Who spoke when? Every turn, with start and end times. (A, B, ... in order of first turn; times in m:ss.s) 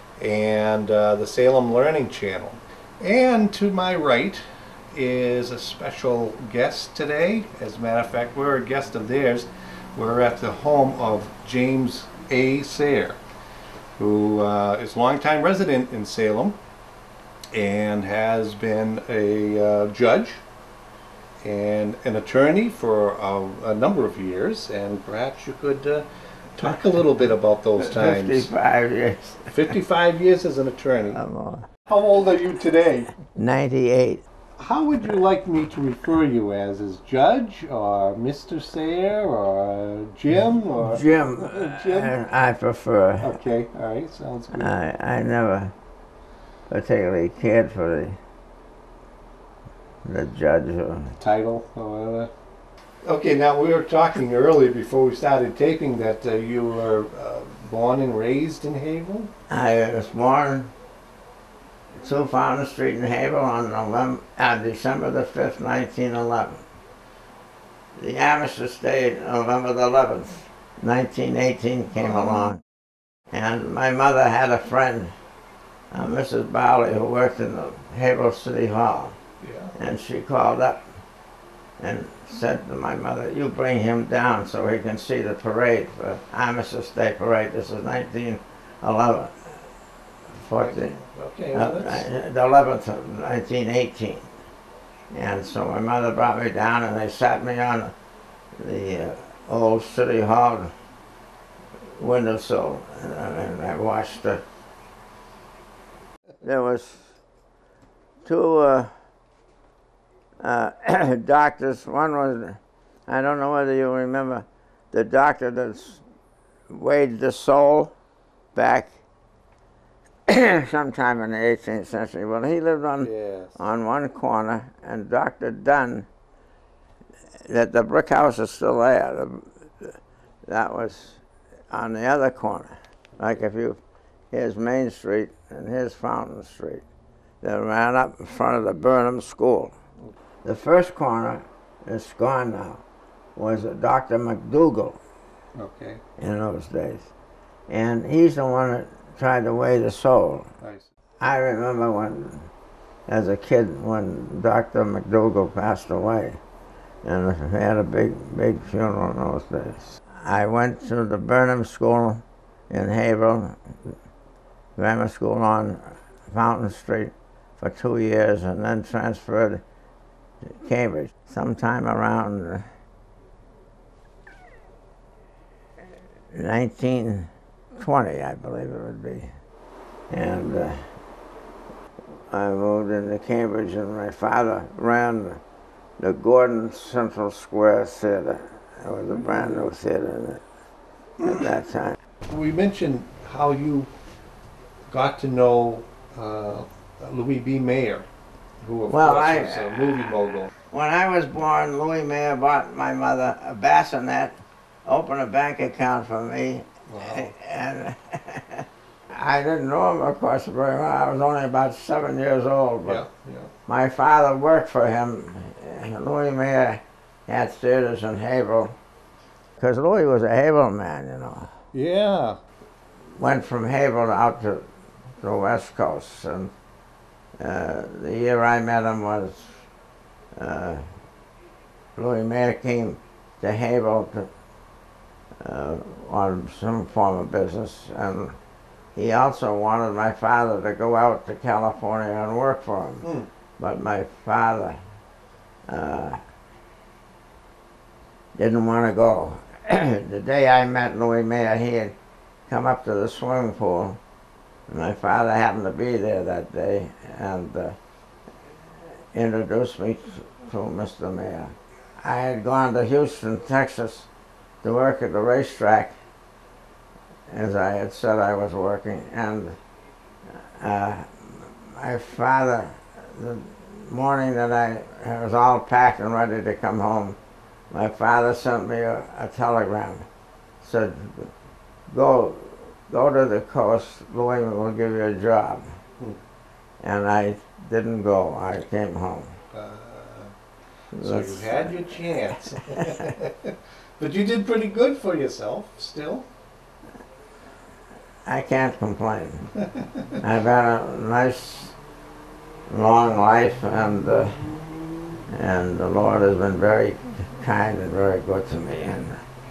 0:00.2-0:13.2 A
0:14.0-0:16.6 A
0:17.5-0:20.4 A
0:21.4-0:28.5 A
0:27.8-0:29.6 B
0:29.5-0:31.2 A
0:31.1-0:31.7 B
0:31.9-0:33.2 A
0:33.3-0:34.2 B
0:34.6-0:42.2 A
0:40.8-0:43.4 B
0:43.2-0:44.7 A
0:44.5-0:45.7 B
0:46.7-0:48.2 B
0:50.0-0:51.2 B
0:51.2-0:52.3 A
0:53.0-0:59.3 A
0:59.5-1:00.7 B
1:02.0-1:06.6 B
1:08.0-1:12.6 B
1:13.3-1:15.1 B
1:15.9-1:19.2 B
1:19.4-1:19.8 A
1:19.8-1:20.8 B
1:21.8-1:29.7 B
1:30.3-1:31.0 B
1:30.6-1:32.1 A
1:31.5-1:34.3 B
1:35.1-1:37.9 B
1:38.6-1:40.7 B
1:42.0-1:44.4 B
1:46.4-1:47.1 B
1:48.2-1:48.9 B
1:50.4-1:56.0 B
1:56.7-1:57.9 B
1:58.6-1:59.0 B
2:00.3-2:06.1 B
2:03.0-2:03.6 A
2:07.4-2:13.8 B
2:14.3-2:16.8 B
2:17.4-2:19.8 B
2:20.4-2:22.8 B
2:23.4-2:25.0 B
2:25.6-2:26.0 A
2:26.2-2:27.1 B
2:27.7-2:30.5 B
2:30.6-2:30.9 A
2:31.2-2:32.5 B
2:33.1-2:36.4 B
2:37.0-2:44.0 B
2:44.8-2:49.6 B
2:50.4-2:52.7 B
2:56.3-2:59.3 B
3:00.1-3:00.9 B
3:02.3-3:05.4 B
3:06.0-3:10.4 B
3:09.3-3:09.6 A
3:11.2-3:12.0 B
3:12.3-3:13.9 A
3:14.9-3:18.1 A
3:18.6-3:20.5 A
3:18.9-3:20.0 B
3:20.7-3:33.0 B
3:26.9-3:27.3 A
3:32.9-3:33.5 A
3:33.7-3:38.8 B
3:39.6-3:41.5 B
3:41.7-3:42.4 A
3:43.2-3:44.7 B
3:45.2-3:46.5 B
3:47.4-3:49.6 B
3:50.4-3:50.9 B
3:52.0-3:54.3 B
3:55.4-3:58.4 B
3:59.0-4:04.8 B
4:05.7-4:06.2 B
4:08.4-4:12.0 B
4:12.5-4:14.0 B
4:14.7-4:17.8 B
4:19.1-4:24.1 B
4:24.6-4:26.0 B
4:27.3-4:29.6 B
4:30.3-4:37.2 B
4:37.7-4:40.1 B
4:40.6-4:41.3 B
4:41.9-4:45.8 B
4:46.8-4:49.4 B
4:49.5-4:50.3 A
4:50.9-4:52.2 B
4:51.0-4:56.3 A
4:58.3-4:59.5 B
4:59.7-5:00.0 A
5:00.2-5:01.8 B
5:02.7-5:04.4 B
5:05.3-5:09.2 B